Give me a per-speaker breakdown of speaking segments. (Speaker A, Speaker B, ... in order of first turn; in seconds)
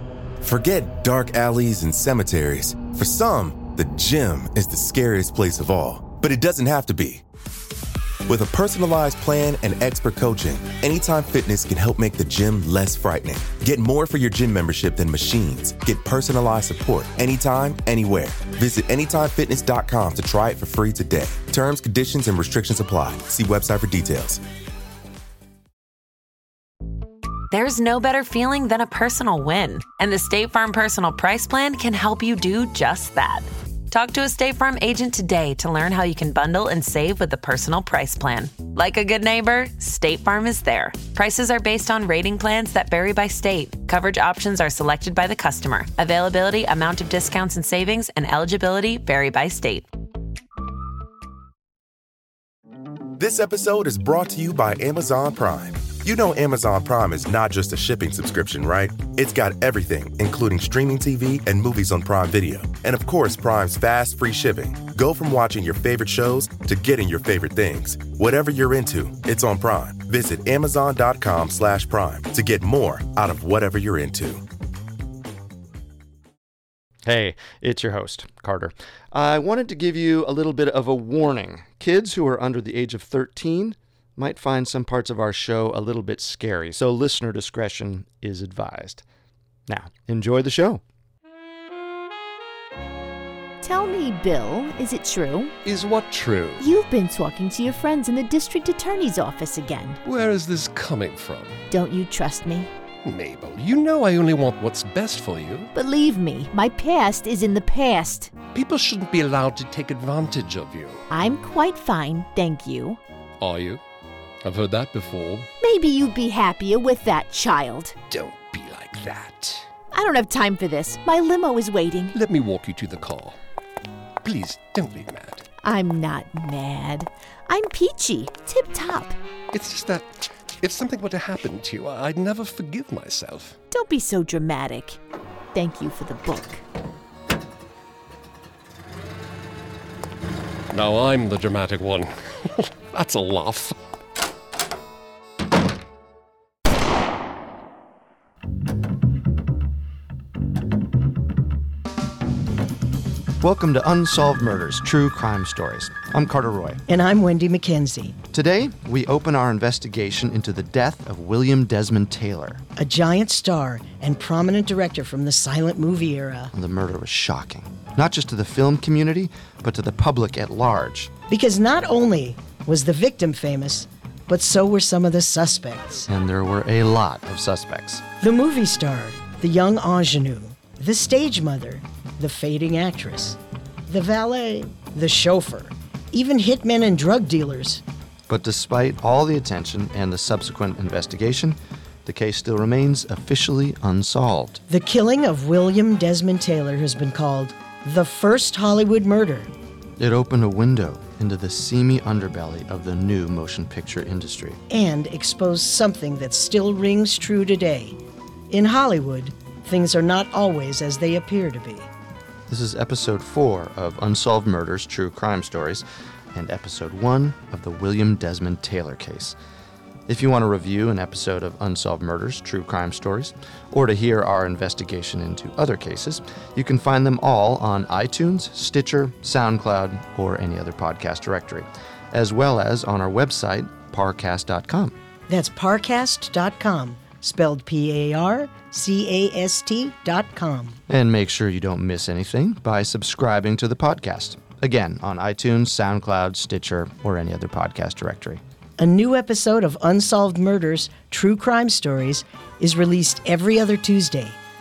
Speaker A: 0.4-7.2, 8.3-24.4, 53.2-74.4
Speaker B: 27.5-49.9
Speaker C: 77.0-89.0, 89.7-90.8, 153.4-156.8, 158.3-162.6, 166.5-171.1, 176.1-178.0, 188.3-194.6, 200.0-204.6, 212.5-219.4, 220.1-235.0, 240.9-248.4
Speaker D: 93.6-95.5, 96.6-100.0, 101.7-102.7, 105.8-108.3, 111.1-113.0, 115.6-118.0, 119.9-122.2, 125.6-129.2, 133.7-135.0, 135.5-136.6
Speaker E: 95.6-96.7, 100.0-101.6, 103.0-105.7, 108.5-111.0, 113.4-113.8, 114.4-115.5, 118.1-119.7, 122.1-123.4, 124.2-125.5, 129.5-130.1, 130.6-133.6, 140.7-143.8
Speaker F: 156.9-158.2, 162.8-166.5, 171.3-176.1, 178.2-187.8, 194.7-199.5, 204.7-208.0, 208.5-211.9, 235.3-240.8, 248.8-254.4